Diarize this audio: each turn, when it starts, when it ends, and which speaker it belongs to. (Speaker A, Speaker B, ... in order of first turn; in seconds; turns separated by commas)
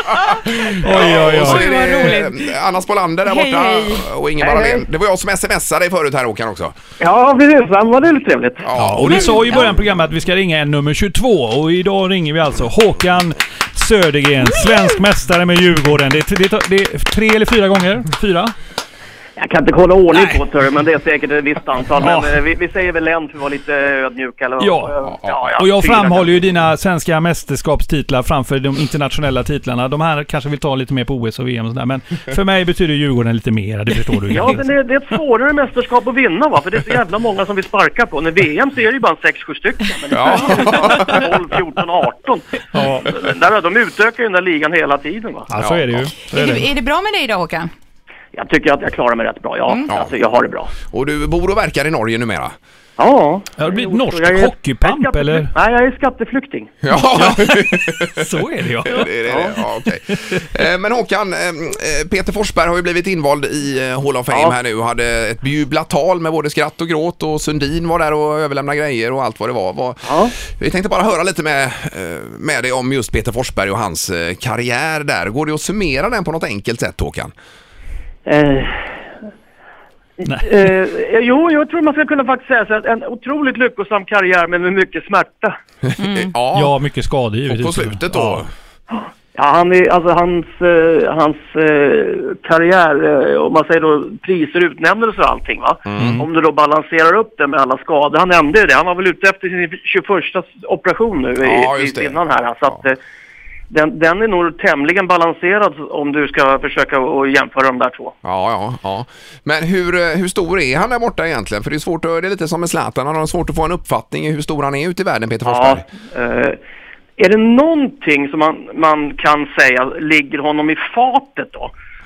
Speaker A: 0.5-6.8, Speaker B: 0.7-1.7, Speaker C: 1.0-2.5, Speaker C: 3.2-4.1, Speaker D: 4.4-4.8, Speaker D: 7.0-8.7, Speaker A: 8.6-9.6, Speaker B: 8.7-18.5, Speaker C: 9.0-9.7, Speaker D: 19.4-26.3, Speaker B: 20.1-20.4, Speaker B: 22.0-22.4, Speaker B: 24.6-25.0, Speaker A: 25.1-25.5, Speaker B: 25.6-34.6, Speaker D: 34.3-45.5, Speaker A: 40.1-41.3, Speaker B: 42.7-43.1, Speaker B: 45.5-46.7, Speaker A: 45.6-46.1, Speaker C: 46.3-47.7, Speaker D: 48.3-50.7, Speaker A: 49.9-50.1, Speaker A: 50.9-52.5, Speaker D: 53.0-56.7, Speaker B: 53.6-55.5, Speaker A: 56.8-77.3, Speaker B: 56.9-59.1, Speaker D: 59.3-59.6, Speaker B: 60.1-60.5, Speaker D: 64.3-64.5, Speaker D: 70.0-70.3, Speaker D: 78.2-79.0, Speaker D: 80.2-85.5, Speaker B: 80.2-80.5, Speaker A: 85.8-86.7, Speaker C: 86.0-86.3, Speaker B: 86.5-88.4, Speaker A: 87.5-88.5, Speaker D: 88.9-103.0, Speaker A: 95.8-96.2, Speaker B: 96.0-96.2, Speaker A: 101.4-102.2, Speaker D: 103.7-108.1, Speaker A: 108.2-115.8, Speaker D: 115.4-116.6, Speaker D: 117.2-121.7